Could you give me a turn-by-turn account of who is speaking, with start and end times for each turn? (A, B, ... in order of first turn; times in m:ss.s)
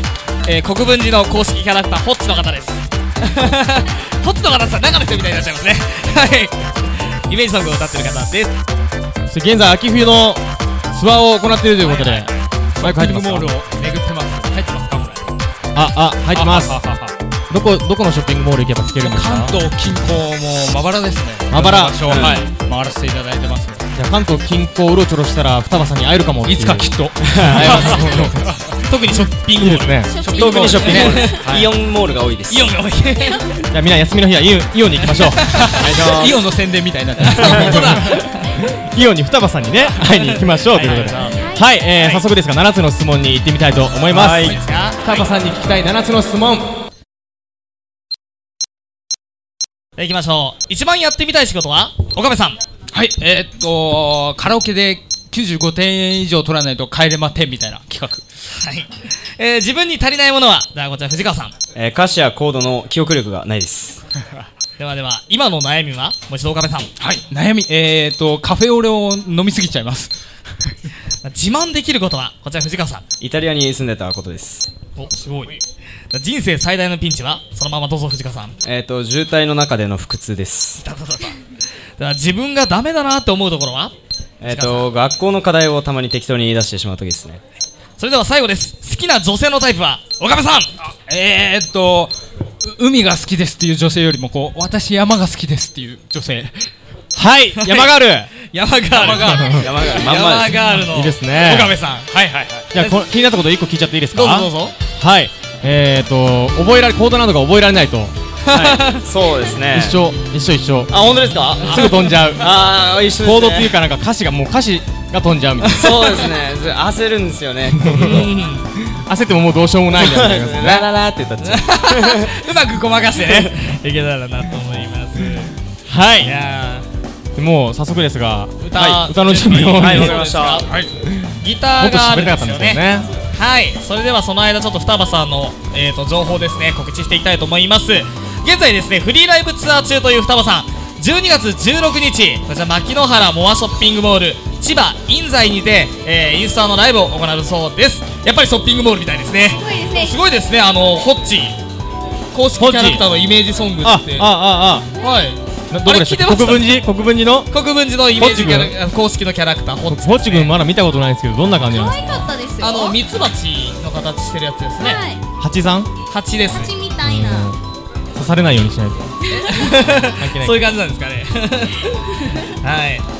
0:00.4-0:08.5 A
0:09.3-0:10.4 B
0:10.9-0:12.3 B
0:11.8-0:12.2 C
0:12.8-0:15.3 C
0:12.8-0:13.5 B
0:15.7-0:16.8 B
0:16.3-0:17.1 C
0:17.5-0:19.5 B
0:19.0-0:23.8 C
0:21.5-0:22.4 B
0:22.1-0:22.4 D
0:24.0-0:28.4 B
0:26.4-0:28.8 C
0:28.9-0:31.4 A
0:29.6-0:30.5 B
0:30.0-0:31.5 E
0:30.3-0:31.7 C
0:30.3-0:32.7 D
0:32.5-0:33.6 A
0:33.7-0:36.3 B
0:35.0-0:35.8 A
0:35.6-0:38.2 C
0:37.2-0:38.5 A
0:37.3-0:46.7 B
0:40.0-0:41.4 A
0:41.2-0:41.7 E
0:42.0-0:42.2 A
0:44.1-0:44.6 C
0:44.1-0:45.3 A
0:50.0-0:52.6 A
0:52.9-0:58.2 C
0:58.5-1:01.5 A
1:01.8-1:04.0 D
1:04.8-1:06.9 A
1:07.0-1:10.1 C
1:11.2-1:13.0 A
1:13.2-1:14.7 D
1:15.0-1:15.6 A
1:16.1-1:18.5 A
1:18.6-1:20.8 D
1:20.8-1:21.4 A
1:22.0-1:23.9 A
1:24.4-1:27.4 D
1:24.4-1:24.9 A
1:28.0-1:30.7 A
1:30.9-1:36.7 C
1:37.2-1:38.3 B
1:37.6-1:37.9 A
1:38.4-1:43.0 A
1:38.9-1:39.6 C
1:39.3-1:39.6 B
1:39.5-1:40.6 D
1:40.8-1:41.7 B
1:42.7-1:48.1 B
1:44.1-1:44.7 A
1:48.4-1:49.0 A
1:48.5-1:50.0 D
1:49.7-1:50.9 B
1:50.9-1:53.8 D
1:51.6-1:52.4 A
1:51.6-1:52.5 B
1:53.2-1:56.1 B
1:55.7-1:58.1 D
1:57.8-2:00.9 B
1:57.9-1:58.6 A
1:59.9-2:02.3 D
2:01.4-2:05.5 A
2:03.2-2:03.5 D
2:05.9-2:06.3 B
2:06.2-2:06.8 A
2:07.4-2:10.2 B
2:08.6-2:10.7 A
2:09.7-2:10.7 D
2:11.0-2:13.1 B
2:11.4-2:12.8 A
2:13.3-2:31.6 A
2:29.5-2:30.2 E
2:32.3-2:34.3 A
2:32.6-2:33.0 B
2:33.8-2:34.9 B
2:35.0-2:36.7 A
2:35.7-2:37.5 B
2:37.5-2:40.5 A
2:38.2-2:38.7 B
2:39.9-2:42.2 B
2:41.6-2:43.0 E
2:42.6-2:45.0 A
2:44.8-2:45.2 E
2:45.4-2:45.9 B
2:46.1-2:46.7 A
2:46.5-2:47.5 E
2:47.0-2:47.6 B
2:48.2-2:49.0 B
2:49.3-2:50.2 E
2:49.3-2:53.0 A
2:50.2-2:50.6 B